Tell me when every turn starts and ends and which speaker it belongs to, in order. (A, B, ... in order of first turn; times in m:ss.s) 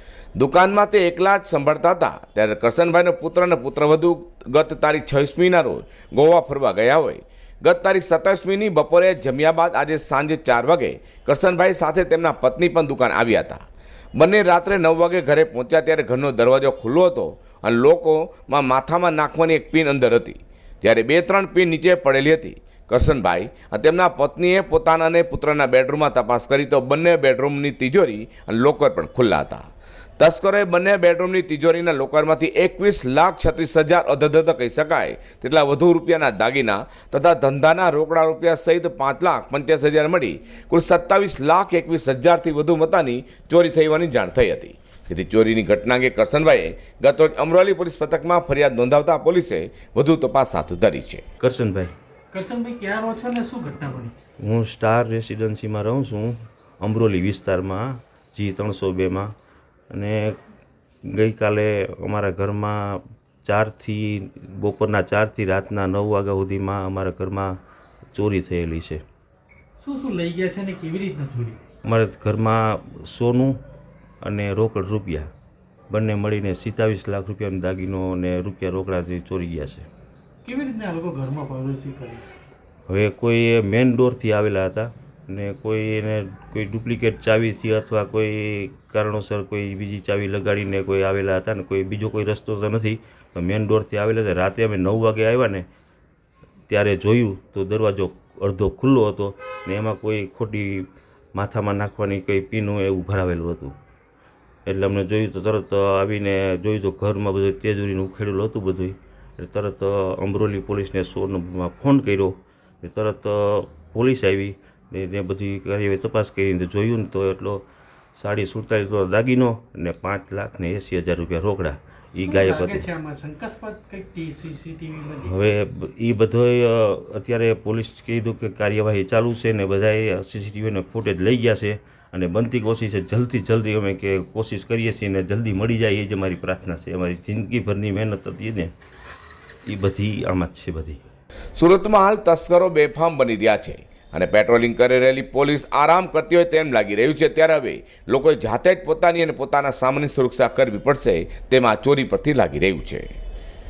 0:00.4-0:13.6 A
0:14.2-0:29.6 A
0:30.2-0:51.2 A
0:51.4-0:51.9 B
0:52.3-0:54.2 C
0:54.4-0:59.3 B
0:59.9-1:00.4 B
1:01.1-1:07.6 B
1:08.1-1:09.0 B
1:09.8-1:11.6 C
1:11.8-1:13.6 B
1:14.2-1:15.3 B
1:15.9-1:19.9 B
1:20.4-1:22.3 C
1:22.9-1:35.7 B
1:36.7-1:43.8 B
1:44.7-2:02.9 B
2:02.2-2:05.4 C
2:05.2-2:18.7 B
2:19.7-2:21.0 B
2:21.6-2:33.1 A